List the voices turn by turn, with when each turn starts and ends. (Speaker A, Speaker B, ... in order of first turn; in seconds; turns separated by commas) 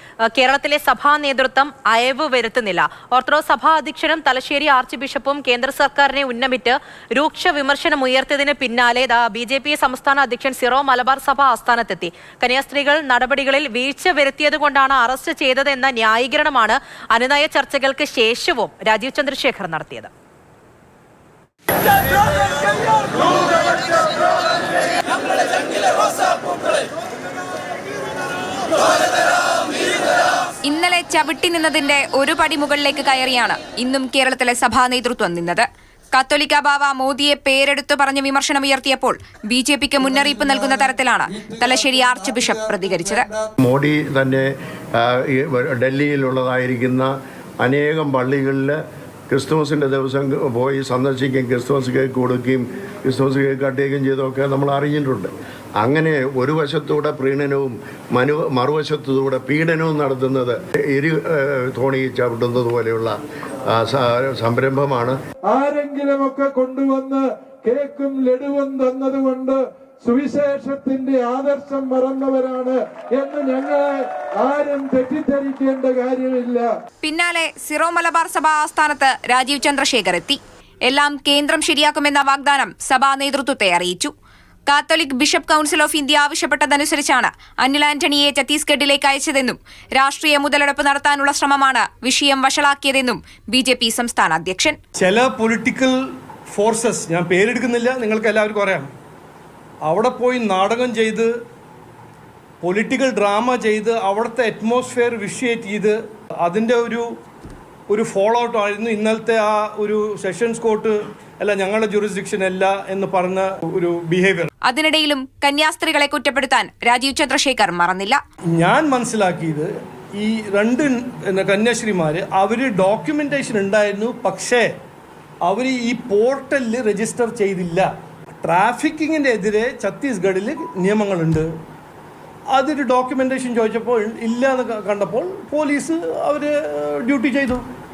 Speaker A: 0.3-20.1, Speaker B: 30.6-43.3, Speaker C: 40.2-43.5, Speaker D: 43.6-48.8, Speaker D: 49.3-65.2, Speaker C: 65.5-76.7, Speaker B: 77.0-84.1, Speaker B: 84.7-94.8, Speaker E: 95.0-95.9, Speaker E: 96.5-98.9, Speaker E: 99.9-101.3, Speaker E: 102.6-107.0, Speaker E: 107.9-114.5, Speaker B: 114.6-118.2, Speaker E: 118.5-124.7, Speaker E: 125.5-127.9, Speaker E: 128.4-131.4, Speaker E: 132.5-137.6